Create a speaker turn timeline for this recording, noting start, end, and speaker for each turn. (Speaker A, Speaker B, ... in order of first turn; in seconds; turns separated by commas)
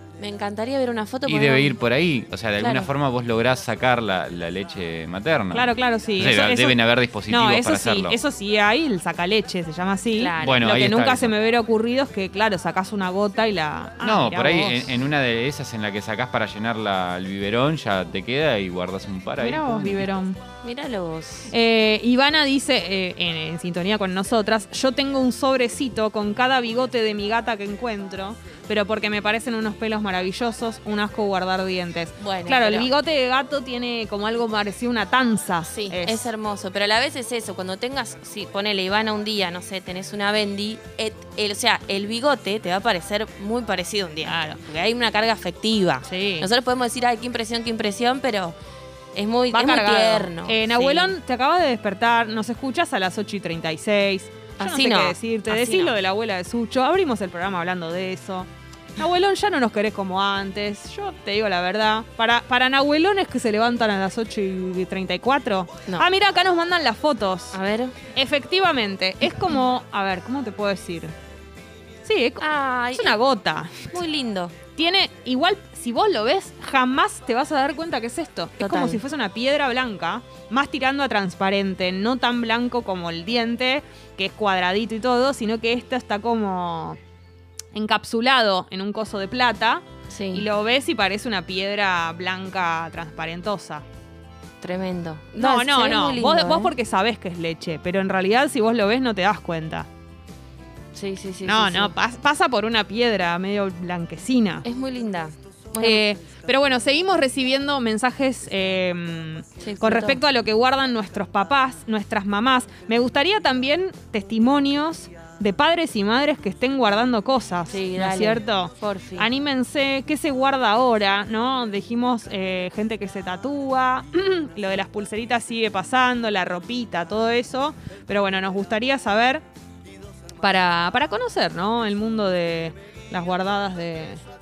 Speaker A: 0.2-1.8, Speaker B: 1.2-8.2, Speaker A: 2.6-2.9, Speaker C: 5.5-14.9, Speaker A: 10.2-10.6, Speaker B: 10.4-11.3, Speaker B: 14.0-20.1, Speaker C: 19.4-20.4, Speaker A: 20.6-21.5, Speaker C: 21.5-36.3, Speaker A: 32.2-32.9, Speaker A: 35.6-48.5, Speaker C: 44.2-44.6, Speaker C: 46.0-46.5, Speaker A: 49.1-51.1, Speaker C: 49.5-67.5, Speaker A: 54.6-55.9, Speaker A: 67.5-68.0, Speaker C: 68.1-71.1, Speaker C: 72.0-72.4, Speaker A: 72.4-73.2, Speaker C: 72.9-73.9, Speaker A: 73.8-74.5, Speaker C: 74.8-87.0, Speaker A: 78.6-79.0, Speaker C: 87.7-93.8, Speaker A: 90.1-90.5, Speaker A: 94.6-96.7, Speaker C: 95.4-99.9, Speaker A: 100.9-101.9, Speaker C: 101.4-104.6, Speaker A: 104.6-106.0, Speaker C: 105.8-129.4, Speaker A: 109.6-110.2, Speaker A: 117.7-119.3, Speaker C: 130.4-134.2